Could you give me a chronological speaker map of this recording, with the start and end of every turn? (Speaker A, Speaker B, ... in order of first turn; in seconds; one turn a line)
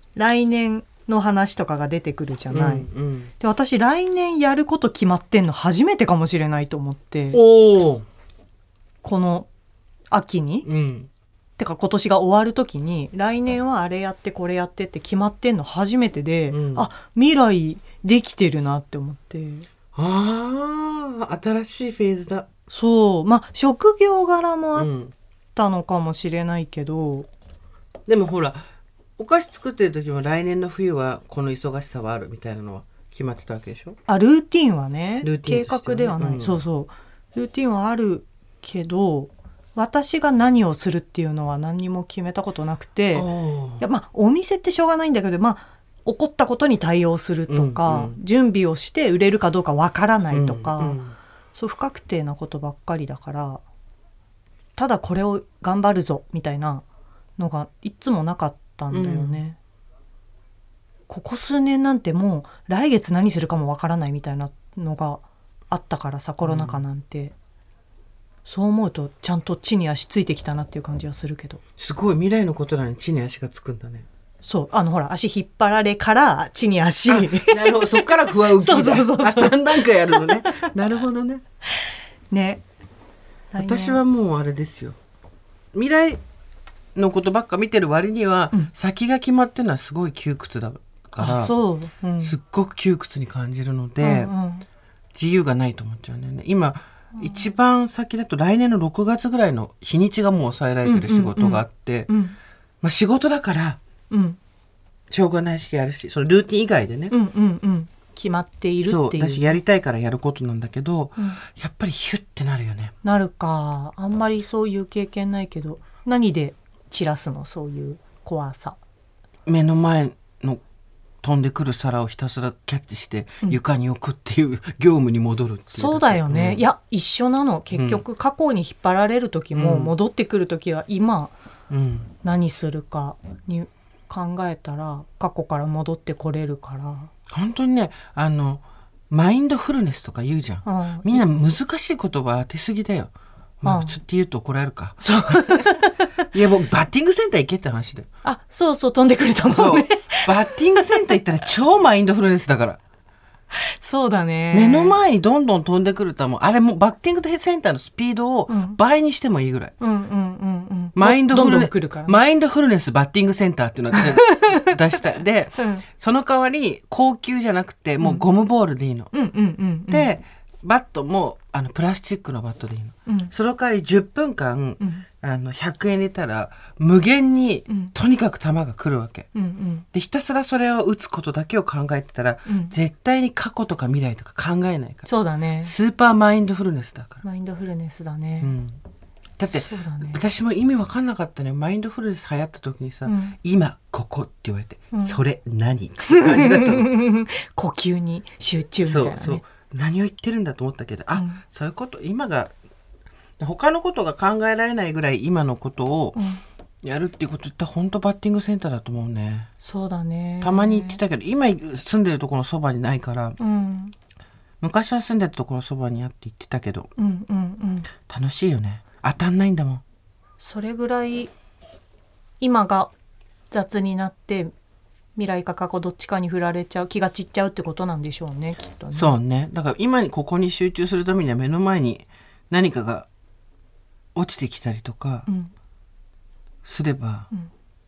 Speaker A: 0.1-7.4
Speaker B: 2.5-3.3
Speaker B: 7.3-8.1
Speaker A: 9.0-9.5
Speaker A: 10.1-10.7
Speaker B: 10.7-11.1
Speaker A: 11.6-19.7
Speaker B: 16.5-16.9
Speaker B: 19.9-22.5
Speaker A: 22.7-24.9
Speaker B: 24.8-25.1
Speaker A: 25.6-27.3
Speaker B: 28.1-28.7
Speaker B: 29.2-34.0
Speaker A: 34.1-51.0
Speaker B: 35.2-36.6
Speaker B: 43.1-43.9
Speaker B: 47.5-48.2
Speaker B: 50.3-51.1
Speaker A: 51.5-53.6
Speaker A: 54.8-56.8
Speaker A: 57.4-59.6
Speaker B: 58.9-59.4
Speaker A: 61.1-67.3
Speaker B: 66.5-66.8
Speaker A: 68.5-71.6
Speaker B: 71.8-74.1
Speaker A: 74.4-80.7
Speaker B: 77.1-81.4
Speaker A: 82.3-82.6
Speaker A: 83.5-84.0
Speaker B: 83.6-85.0
Speaker B: 85.7-86.2
Speaker B: 87.0-91.5
Speaker A: 91.2-92.4
Speaker B: 92.2-94.3
Speaker A: 94.0-94.7
Speaker B: 95.1-102.1
Speaker A: 97.2-97.5
Speaker A: 100.8-102.4
Speaker B: 102.8-103.8
Speaker A: 104.1-104.4
Speaker B: 105.1-107.1
Speaker A: 107.1-109.6
Speaker B: 108.8-113.0
Speaker A: 113.0-118.8
Speaker B: 119.5-120.6
Speaker B: 121.2-126.6
Speaker A: 125.7-131.3
Speaker B: 127.7-128.0
Speaker B: 129.5-129.9
Speaker B: 131.7-132.1
Speaker A: 132.2-137.1
Speaker B: 137.3-145.8
Speaker A: 140.7-141.2
Speaker A: 143.6-144.0
Speaker A: 145.0-146.1
Speaker B: 146.3-148.1
Speaker A: 148.2-151.2
Speaker B: 149.5-152.8
Speaker A: 153.6-155.0
Speaker B: 154.5-159.7
Speaker A: 158.5-158.8
Speaker A: 159.8-162.2
Speaker B: 160.9-169.1
Speaker A: 163.9-164.7
Speaker A: 169.1-170.1
Speaker B: 169.9-179.3
Speaker A: 173.1-173.3
Speaker A: 174.8-175.1
Speaker A: 177.7-177.9
Speaker A: 179.3-179.8
Speaker B: 179.9-185.1
Speaker A: 182.5-182.7
Speaker A: 185.1-185.7
Speaker B: 185.6-187.2
Speaker A: 187.2-188.5
Speaker B: 188.4-188.8
Speaker B: 189.4-196.9
Speaker A: 189.5-190.2
Speaker A: 193.1-193.3
Speaker A: 194.9-195.2
Speaker A: 196.1-199.4
Speaker B: 198.8-202.5
Speaker A: 201.2-201.4
Speaker B: 203.4-206.2
Speaker A: 206.2-206.4
Speaker B: 206.8-209.5
Speaker A: 209.6-211.0
Speaker B: 210.4-213.4
Speaker A: 213.4-213.9
Speaker B: 214.6-216.9
Speaker A: 217.0-217.9
Speaker B: 218.1-219.8
Speaker A: 220.4-221.3
Speaker A: 222.4-222.9
Speaker A: 223.5-224.5
Speaker A: 225.2-229.2
Speaker B: 228.9-233.1
Speaker B: 234.2-235.3
Speaker A: 235.3-235.5
Speaker B: 236.6-237.3